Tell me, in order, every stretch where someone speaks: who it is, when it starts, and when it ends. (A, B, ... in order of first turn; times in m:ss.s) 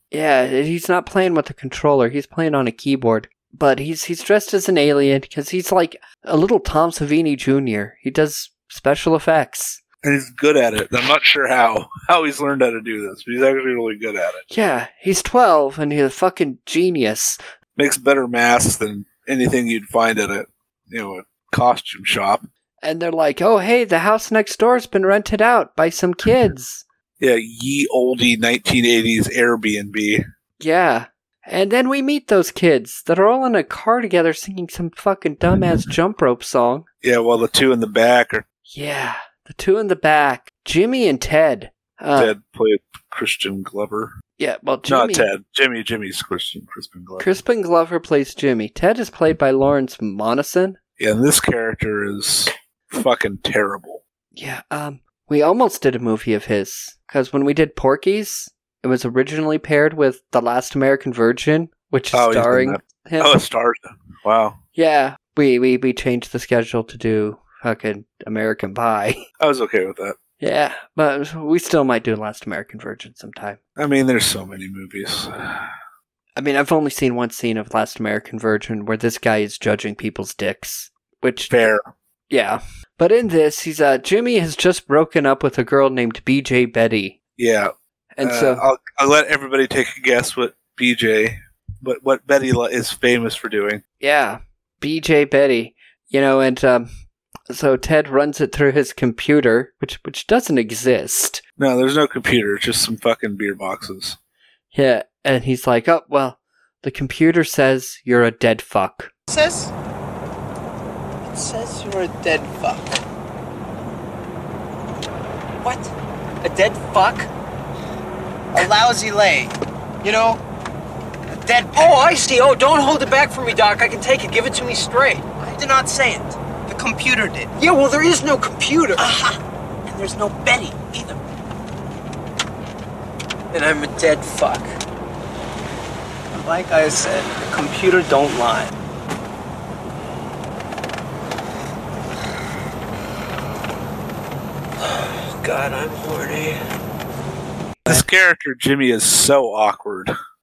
0:00.1-0:09.8 A
0:10.0-0:14.4 B
0:14.5-0:17.4 A
0:17.8-0:22.4 B
0:22.8-0:26.8 A
0:27.2-0:30.2 B
0:30.6-0:36.8 A
0:37.0-0:38.4 B
0:38.7-0:42.3 A
0:42.2-0:44.1 B
0:44.4-0:45.3 A
0:44.9-0:47.3 B
0:47.2-0:50.8 A
0:51.0-0:54.0 B
0:54.3-1:03.4 A
1:02.1-1:04.6 B
1:04.8-1:09.2 A
1:09.4-1:10.2 B
1:10.4-1:13.6 A
1:13.8-1:15.7 B
1:16.4-1:21.6 A
1:21.5-1:21.9 B
1:22.3-1:27.2 A
1:27.4-1:33.8 B
1:28.2-1:28.6 A
1:34.0-1:36.9 A
1:37.5-1:41.4 A
1:41.6-1:44.2 B
1:44.7-1:49.1 A
1:49.3-1:49.7 C
1:51.2-1:53.0 C
1:55.6-1:55.9 C
1:56.4-1:57.3 C
1:58.5-2:00.4 C
2:01.4-2:11.2 C
2:13.5-2:14.8 C
2:16.3-2:18.7 C
2:24.9-2:26.6 C
2:27.9-2:30.1 B